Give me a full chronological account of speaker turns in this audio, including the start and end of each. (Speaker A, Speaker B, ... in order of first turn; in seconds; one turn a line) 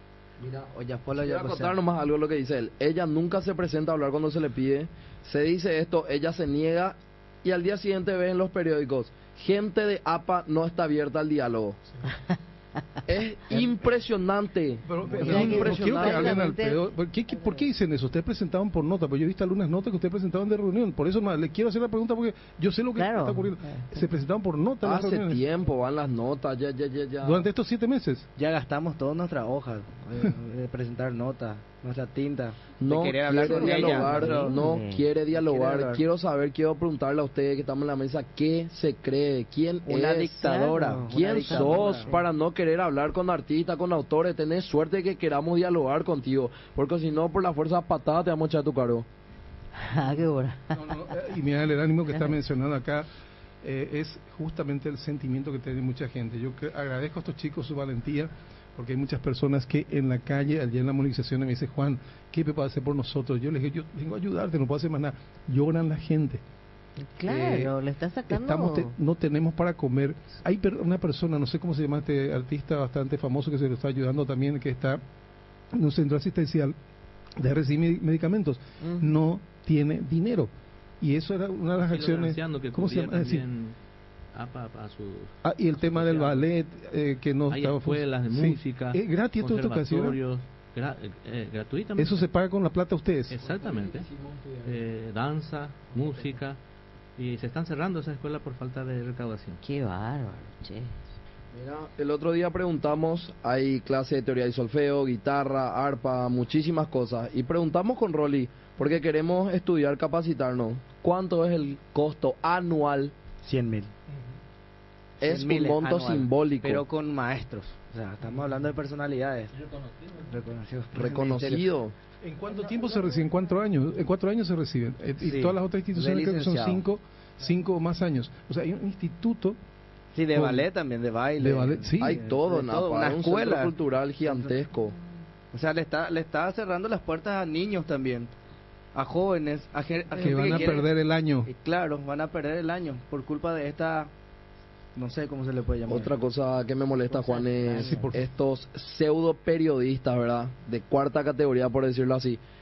Speaker A: 0.4-11.8
Speaker B: 0.7-1.8
Speaker A: 13.1-16.4
Speaker C: 14.8-25.4
Speaker D: 15.2-16.8
Speaker D: 17.3-17.6
Speaker D: 23.0-24.0
Speaker A: 24.8-27.5
Speaker C: 27.2-28.3
Speaker B: 28.4-34.6
Speaker A: 32.8-40.5
Speaker D: 33.5-35.1
Speaker B: 35.3-36.0
Speaker B: 39.9-42.2
Speaker D: 40.4-42.2
Speaker A: 41.1-49.0
Speaker D: 49.8-51.1
Speaker C: 50.7-53.0
Speaker C: 53.6-66.4
Speaker D: 67.0-69.0
Speaker C: 67.2-67.8
Speaker C: 68.3-75.0
Speaker C: 75.7-76.8
Speaker C: 77.4-80.5
Speaker D: 78.8-79.1
Speaker C: 81.0-83.5
Speaker E: 81.8-83.8
Speaker E: 84.3-86.5
Speaker C: 85.4-90.2
Speaker E: 87.5-92.2
Speaker C: 92.0-93.4
Speaker E: 93.3-94.1
Speaker A: 93.5-94.7
Speaker E: 94.6-96.6
Speaker E: 97.2-99.6
Speaker D: 99.6-101.0
Speaker A: 101.5-113.1
Speaker B: 113.4-113.9
Speaker B: 115.2-119.5
Speaker A: 115.2-116.8
Speaker E: 119.7-120.1
Speaker B: 120.2-121.7
Speaker A: 120.9-121.9
Speaker C: 122.2-129.6
Speaker B: 125.2-126.8
Speaker B: 130.1-134.5
Speaker C: 130.3-130.7
Speaker C: 131.4-132.2
Speaker A: 132.0-135.0
Speaker B: 135.5-138.3
Speaker B: 138.9-140.9
Speaker C: 140.2-141.5
Speaker B: 141.5-144.1
Speaker B: 144.9-146.1
Speaker A: 145.9-152.4
Speaker D: 147.1-148.1
Speaker C: 147.9-148.2